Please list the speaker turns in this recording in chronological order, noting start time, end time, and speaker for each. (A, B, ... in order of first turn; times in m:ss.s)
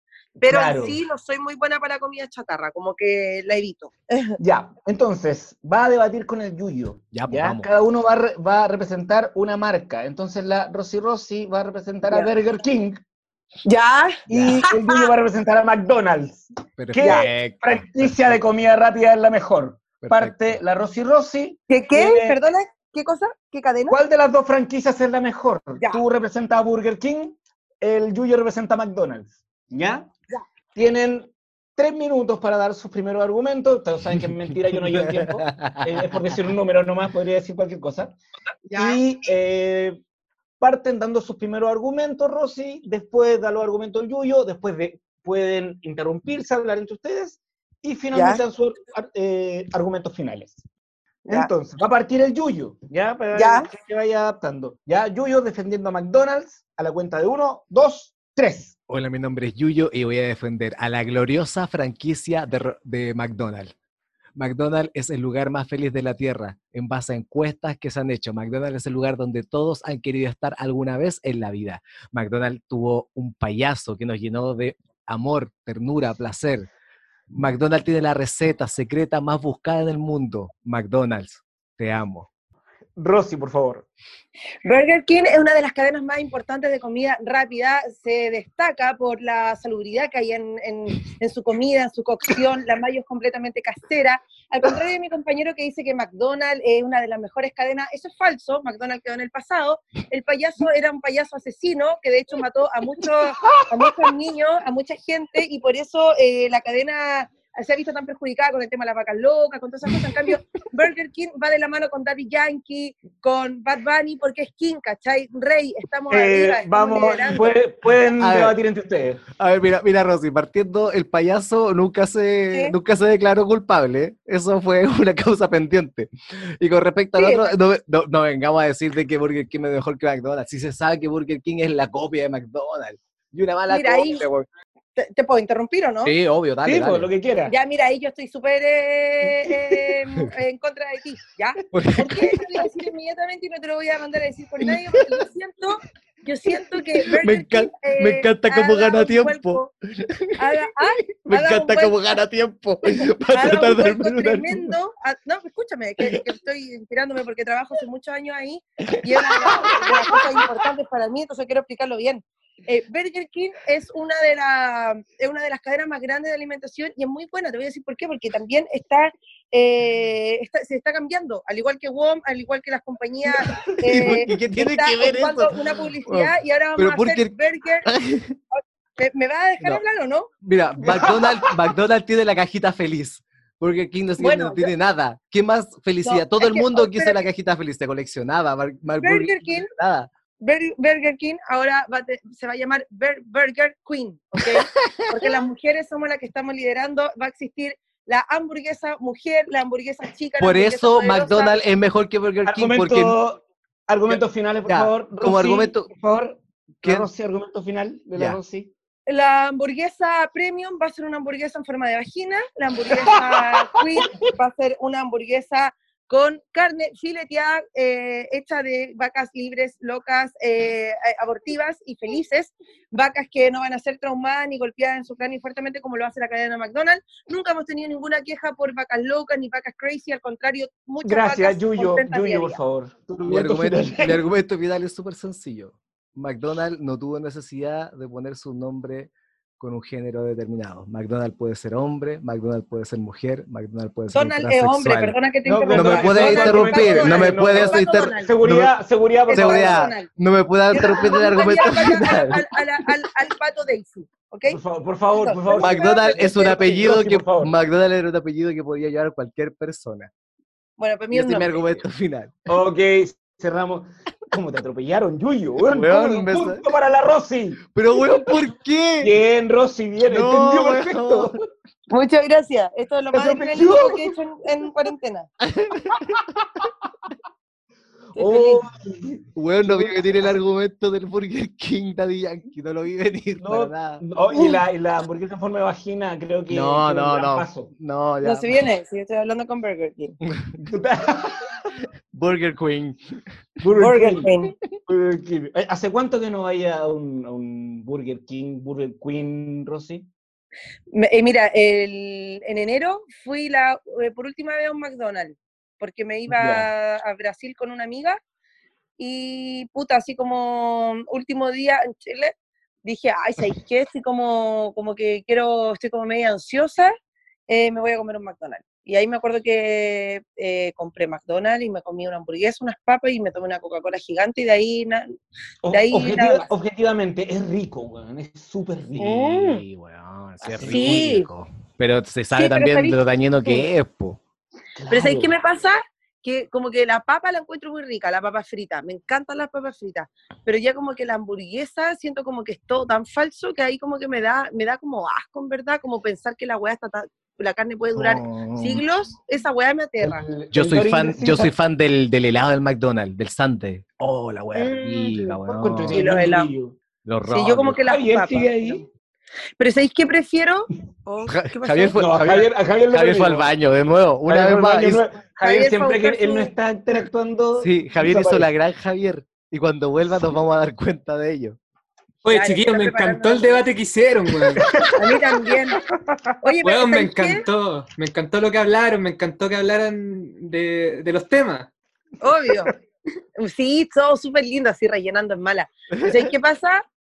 0:00.4-0:01.0 A
0:00.4-0:04.4 B
0:04.4-0:13.0 A
0:07.1-0:07.7 C
0:13.6-0:15.1 B
0:14.3-0:22.4 A
0:14.3-0:14.6 C
0:16.8-0:18.4 C
0:17.0-0:17.3 B
0:20.0-0:20.6 C
0:21.7-0:24.0 B
0:23.9-0:30.1 A
0:30.8-0:38.2 A
0:34.9-0:36.0 C
0:38.7-0:39.0 B
0:38.8-0:40.0 A
0:40.6-0:50.6 A
0:48.1-0:48.4 B
0:51.3-0:58.8 A
0:53.3-0:53.7 B
0:58.9-1:03.7 C
1:04.4-1:16.7 C
1:17.3-1:22.3 C
1:23.0-1:23.9 A
1:24.6-1:57.6 B
1:56.1-1:59.2 A
1:58.2-1:58.6 C
1:59.4-2:14.5 C
2:07.1-2:07.6 B
2:13.7-2:14.2 B
2:14.9-2:16.1 B
2:16.0-2:17.1 C
2:16.6-2:17.6 A
2:17.5-2:29.7 B
2:21.7-2:22.7 C
2:24.6-2:25.2 C
2:27.0-2:30.4 C
2:30.4-2:32.2 B
2:31.2-2:34.7 C
2:33.3-2:57.9 B
2:39.2-2:40.5 C
2:53.7-2:57.3 C
2:57.9-2:58.4 C
2:58.5-3:00.3 B
3:00.4-3:10.1 C
3:00.8-3:01.5 A
3:04.2-3:04.7 B
3:06.0-3:07.2 B
3:09.0-3:09.7 B
3:10.4-3:21.6 B
3:14.5-3:15.2 C
3:20.4-3:23.2 C
3:22.4-3:28.7 A
3:24.1-3:25.9 C
3:26.8-3:27.1 C
3:29.1-3:52.6 B
3:32.9-3:34.2 A
3:51.0-3:54.2 A
3:53.2-4:05.2 C
4:04.1-4:08.3 B
4:05.5-4:09.9 A
4:05.7-4:08.7 C
4:09.3-4:10.1 B
4:09.3-4:12.9 C
4:10.7-4:14.6 B
4:14.5-4:17.5 A
4:15.2-4:16.7 B
4:15.6-4:20.1 C
4:20.8-4:21.7 B
4:21.1-4:22.4 C
4:22.5-4:28.3 A
4:25.6-4:26.6 C
4:27.7-4:29.1 C
4:29.0-4:31.4 A
4:30.1-4:31.4 C
4:31.9-4:35.3 B
4:33.1-4:34.1 A
4:35.4-4:36.2 C
4:38.1-4:40.4 A
4:38.2-4:38.6 B
4:39.4-4:44.0 C
4:43.4-4:47.7 A
4:44.3-4:44.6 B
4:46.5-4:48.6 C
4:48.2-4:50.2 B
4:50.3-4:50.6 C
4:50.6-4:51.6 A
4:52.1-4:53.0 C
4:53.6-4:54.3 A
4:53.8-4:54.5 B
4:54.9-5:00.1 A
5:00.9-5:08.2 B
5:06.3-5:06.7 A
5:09.0-5:16.9 B
5:17.5-5:25.1 B
5:25.6-5:29.3 A
5:25.7-5:26.5 B
5:29.0-5:29.6 B
5:29.0-5:34.2 C
5:30.4-5:31.1 A
5:30.6-5:31.3 B
5:32.4-5:33.7 B
5:34.8-5:35.3 A
5:34.9-5:50.2 B
5:48.0-5:48.8 C
5:50.0-5:51.5 A
5:50.5-5:56.0 C
5:54.5-5:55.4 B
5:55.4-5:56.8 A
5:55.9-5:56.5 B
5:57.0-5:57.8 C
5:57.3-5:58.8 B
5:57.8-5:58.9 A
5:59.6-6:02.2 B
6:01.3-6:05.0 C
6:02.0-6:03.5 A
6:04.3-6:08.5 A
6:05.4-6:06.5 B
6:07.6-6:11.6 C
6:12.2-6:14.7 D
6:12.3-6:13.6 B
6:14.6-6:16.4 A
6:14.9-6:15.8 B
6:16.4-6:17.4 B
6:16.6-6:21.7 D
6:22.2-6:22.7 B
6:23.4-6:26.8 B
6:26.0-6:26.2 C